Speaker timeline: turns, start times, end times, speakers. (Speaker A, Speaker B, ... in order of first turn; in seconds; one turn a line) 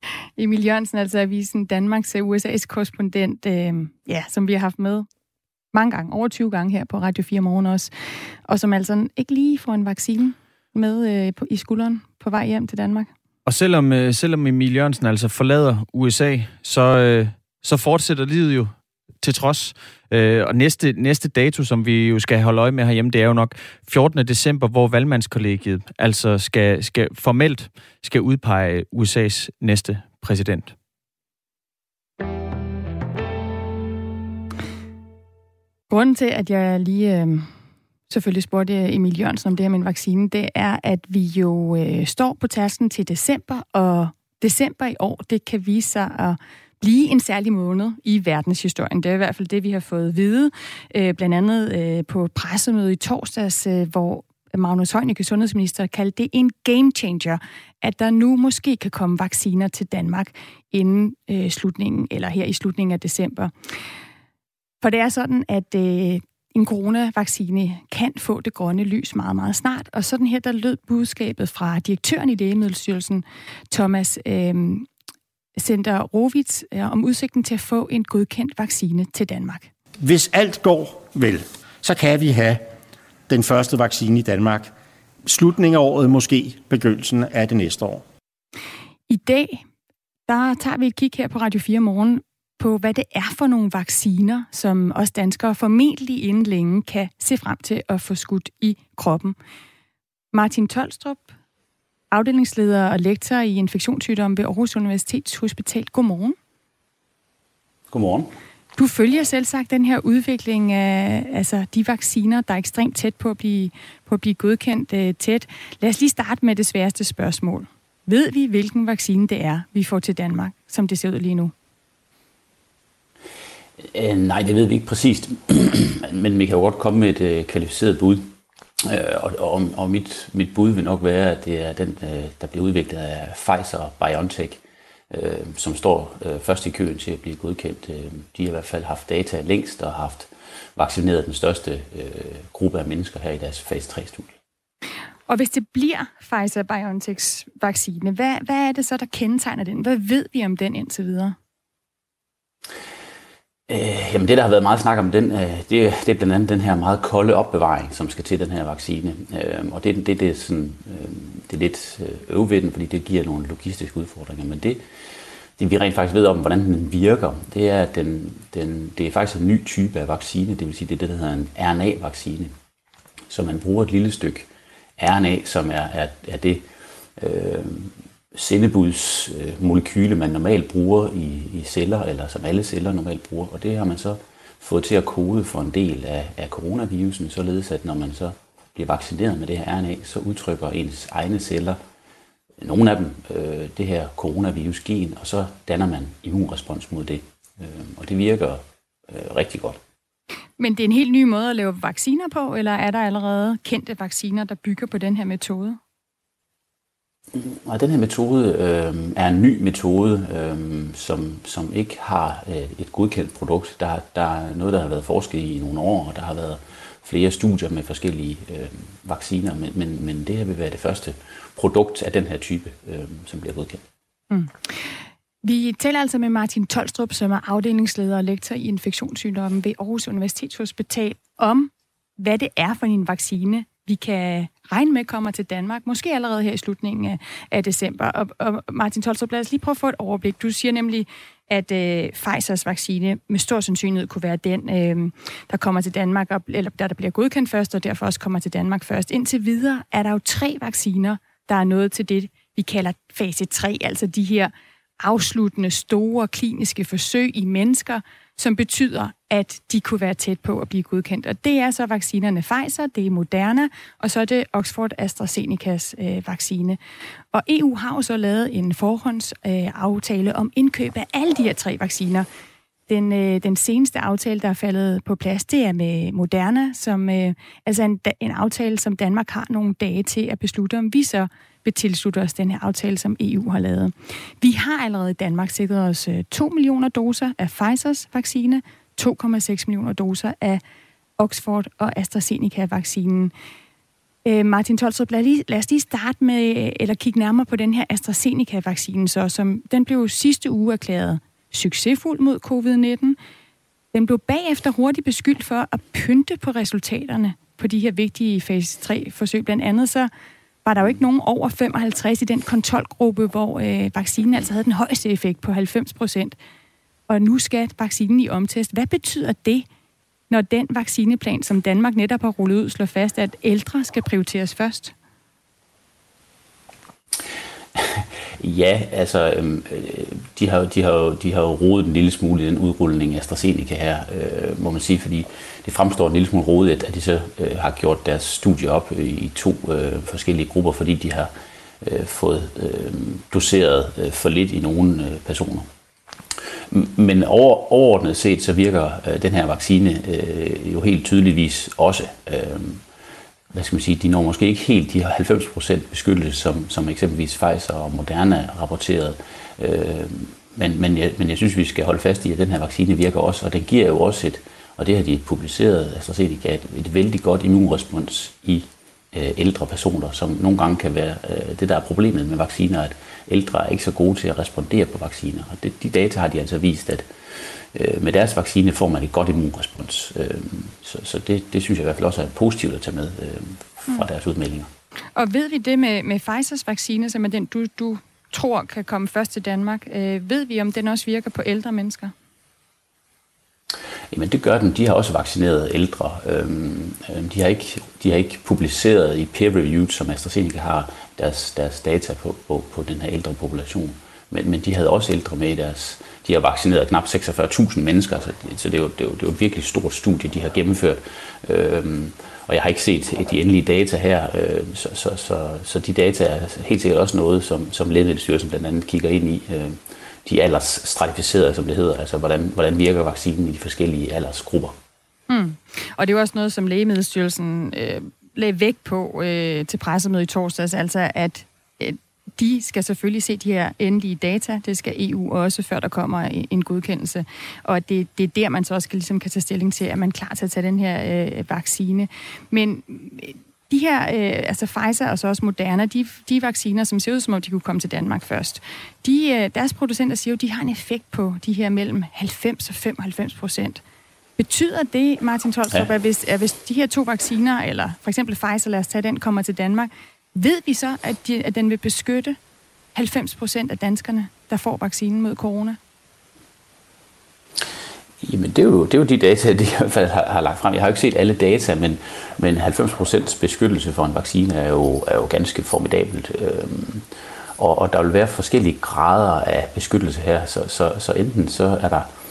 Speaker A: 0.4-5.1
Speaker A: 5.7-7.9
Speaker A: 8.5-13.1
Speaker B: 13.5-30.7
Speaker A: 35.9-37.5
Speaker A: 38.1-63.5
Speaker A: 64.8-74.9
Speaker A: 75.6-79.7
Speaker C: 80.0-82.7
Speaker C: 83.3-84.7
Speaker C: 85.3-88.0
Speaker A: 89.1-89.6
Speaker A: 90.3-99.4
Speaker A: 100.3-101.3
Speaker A: 102.1-106.4
Speaker D: 107.9-108.3
Speaker A: 108.8-121.5
Speaker D: 123.8-144.3
Speaker A: 145.3-151.4
Speaker D: 153.7-164.8
Speaker D: 165.6-172.6
Speaker D: 173.3-176.7
Speaker D: 177.2-191.8
Speaker D: 192.6-199.8
Speaker A: 200.6-205.8
Speaker D: 207.3-223.8
Speaker A: 224.3-266.8
Speaker A: 267.3-272.3
Speaker A: 272.9-290.6
Speaker A: 291.2-293.3
Speaker A: 294.2-303.2
Speaker A: 303.9-310.1
Speaker A: 310.6-316.4
Speaker A: 317.1-319.7
Speaker A: 320.3-324.9
Speaker D: 327.8-345.7
Speaker D: 346.7-352.8
Speaker D: 353.5-384.7
Speaker A: 385.2-392.1
Speaker D: 394.1-424.8
Speaker A: 425.3-453.8
Speaker A: 454.4-462.4
Speaker A: 462.9-465.8
Speaker D: 468.2-482.1